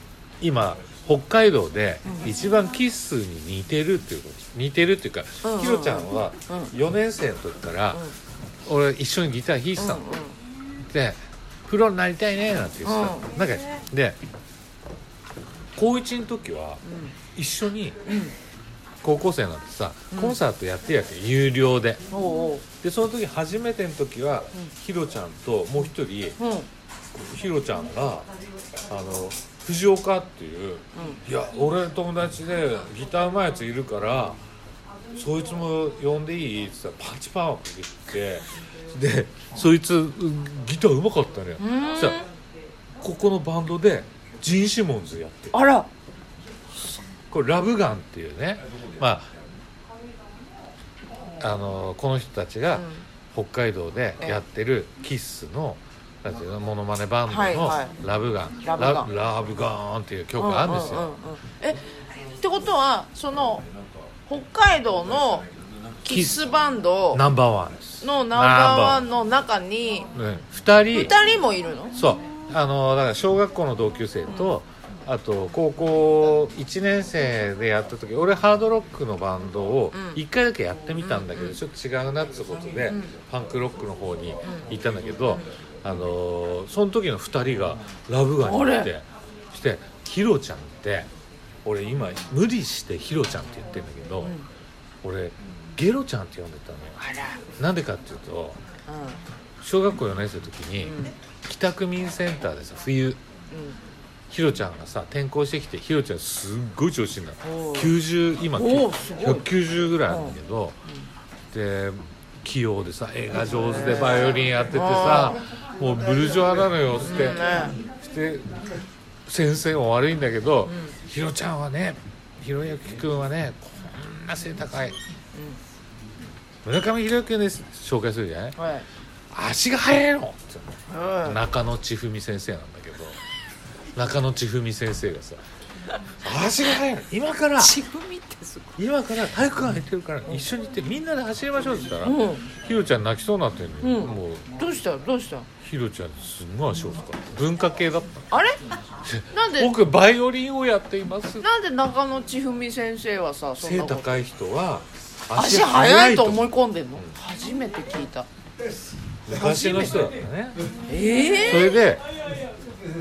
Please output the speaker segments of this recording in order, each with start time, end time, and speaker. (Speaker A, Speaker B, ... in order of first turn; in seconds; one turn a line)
Speaker A: 0.4-8.0
Speaker B: 5.4-6.7
Speaker A: 8.7-10.0
Speaker B: 9.8-10.4
Speaker A: 10.9-14.2
Speaker B: 12.8-13.3
Speaker A: 15.8-16.8
Speaker B: 16.8-17.1
Speaker A: 17.4-18.0
Speaker B: 18.1-18.4
Speaker A: 19.0-22.0
Speaker B: 20.1-20.4
Speaker B: 22.1-22.6
Speaker A: 22.8-26.4
Speaker B: 26.4-26.7
Speaker A: 27.2-28.3
Speaker A: 28.9-34.4
Speaker B: 30.9-31.2
Speaker A: 35.1-42.2
Speaker B: 41.6-42.2
Speaker A: 43.0-45.6
Speaker B: 45.5-45.9
Speaker A: 47.3-49.3
Speaker A: 51.4-61.1
Speaker B: 52.7-53.0
Speaker B: 57.3-57.9
Speaker B: 58.6-59.1
Speaker B: 60.4-61.9
Speaker B: 62.4-63.6
Speaker B: 64.3-65.5
Speaker B: 66.0-67.2
Speaker A: 66.1-66.5
Speaker A: 67.1-69.1
Speaker B: 68.0-70.1
Speaker A: 70.2-71.2
Speaker B: 70.9-72.0
Speaker A: 71.9-91.1
Speaker B: 74.3-74.6
Speaker B: 79.9-80.2
Speaker B: 81.0-81.6
Speaker B: 88.4-88.9
Speaker A: 91.7-94.3
Speaker B: 94.2-94.5
Speaker A: 95.0-97.0
Speaker B: 97.0-97.4
Speaker A: 97.6-98.6
Speaker B: 98.9-99.2
Speaker A: 99.6-103.2
Speaker B: 100.8-101.2
Speaker B: 103.5-103.8
Speaker A: 104.3-110.8
Speaker B: 107.4-107.9
Speaker B: 108.5-109.5
Speaker B: 110.1-110.4
Speaker A: 111.5-118.5
Speaker B: 113.5-115.4
Speaker B: 117.0-117.8
Speaker A: 119.3-125.0
Speaker B: 120.7-121.0
Speaker B: 125.3-125.6
Speaker A: 126.6-128.6
Speaker B: 128.6-128.9
Speaker A: 129.3-133.2
Speaker B: 130.9-131.4
Speaker A: 133.9-135.4
Speaker A: 136.2-137.8
Speaker B: 137.6-138.8
Speaker A: 138.8-144.4
Speaker B: 142.0-142.5
Speaker B: 143.8-145.5
Speaker A: 145.6-148.3
Speaker B: 148.3-148.6
Speaker A: 149.0-151.5
Speaker B: 149.3-149.7
Speaker B: 151.4-154.1
Speaker A: 153.6-157.1
Speaker B: 155.3-158.3
Speaker A: 159.3-160.6
Speaker B: 159.3-159.9
Speaker B: 160.9-161.8
Speaker A: 161.4-162.0